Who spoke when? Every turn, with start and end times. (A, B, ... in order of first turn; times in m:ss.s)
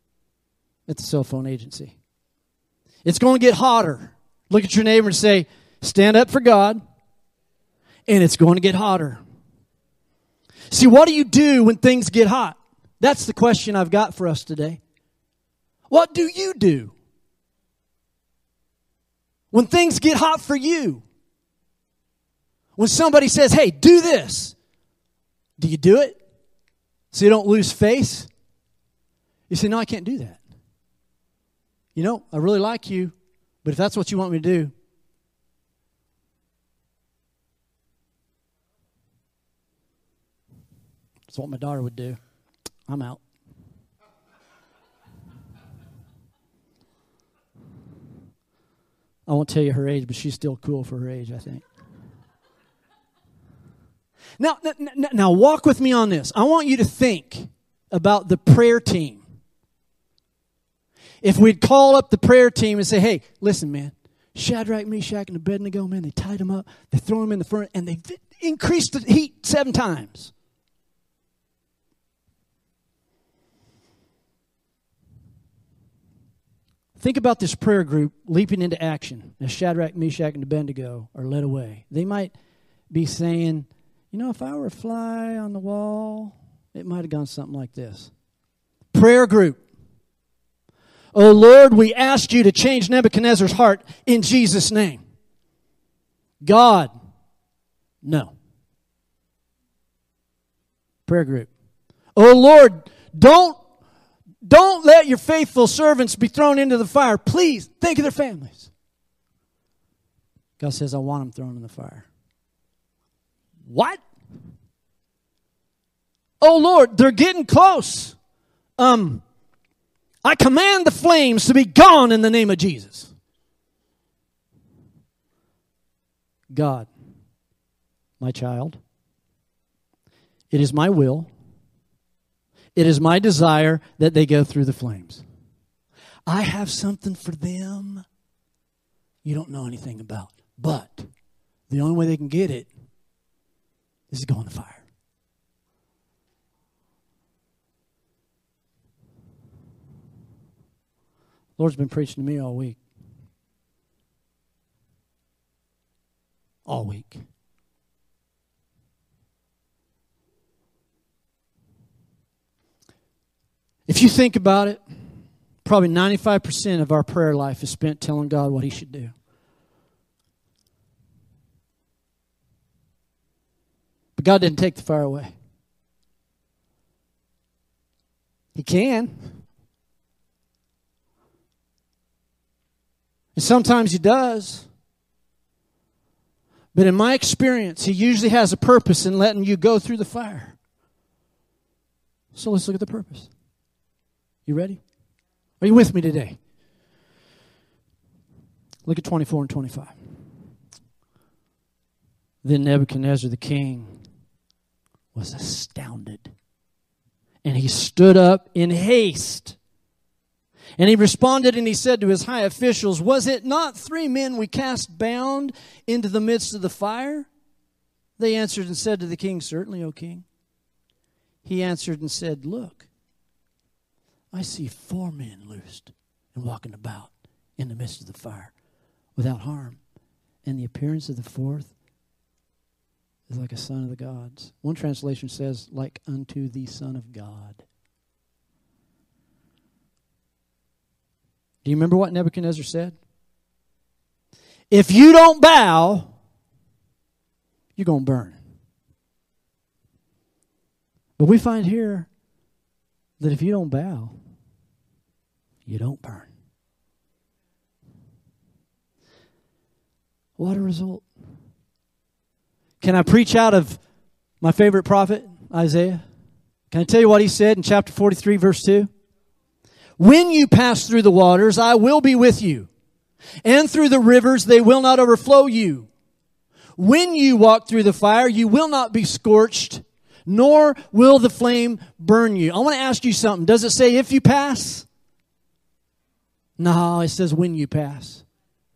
0:00.9-0:02.0 A
0:03.0-0:06.8 A
0:08.1-0:09.2 A
0:10.7-0:14.8 A
0:15.9-0:16.9 A
0:19.5-0:21.0 A
0:22.8-0:24.6 A
0:25.6-0:26.2 A
0:27.1-0:28.3 A
0:29.5-0:30.4 A
0:32.0-0:34.7 A
0:41.3-0:42.2 A
0:42.9-0:43.2 A
0:49.3-0:51.6 A
0:54.4-0:59.2 A
1:01.2-1:10.3 A
1:17.0-1:22.3 A
1:22.9-1:28.1 A
1:28.9-1:29.6 A
1:31.1-1:35.0 A
1:36.4-1:36.9 A
1:38.0-1:38.3 A
1:41.1-1:41.5 A
1:42.2-1:43.6 A
1:44.4-1:48.7 A
1:50.6-1:52.1 A
1:53.7-1:54.0 A
1:56.4-1:58.2 A
1:58.8-1:59.2 A
2:00.2-2:03.1 A
2:06.5-2:06.9 A
2:08.2-2:08.8 A
2:10.5-2:11.3 A
2:12.8-2:15.2 A
2:16.3-2:18.0 A
2:19.2-2:21.1 A
2:21.7-2:22.7 A
2:24.1-2:24.8 A
2:31.6-2:32.8 A
2:36.7-2:37.2 A
2:43.9-2:44.8 A
2:45.6-2:49.1 A
2:54.2-2:55.3 A
2:58.6-2:59.3 A
3:03.4-3:04.7 A
3:06.7-3:10.6 A
3:12.3-3:13.3 A
3:14.5-3:14.8 A
3:15.6-3:16.4 A
3:18.9-3:19.9 A
3:22.4-3:24.0 A
3:25.2-3:26.3 A
3:27.4-3:29.6 A
3:30.8-3:37.3 A
3:38.2-3:40.2 A
3:41.4-3:42.9 A
3:44.3-3:48.5 A
3:49.2-3:49.8 A
3:50.4-3:51.7 A
3:53.3-3:57.6 A
4:01.6-4:03.0 A
4:04.7-4:06.1 A
4:07.8-4:08.4 A
4:11.2-4:12.1 A
4:13.2-4:14.1 A
4:15.7-4:16.3 A
4:20.4-4:21.0 A
4:22.8-4:23.8 A
4:24.4-4:26.0 A
4:26.7-4:28.9 A
4:30.0-4:32.7 A
4:33.4-4:35.9 A
4:36.8-4:44.9 A
4:46.6-4:48.2 A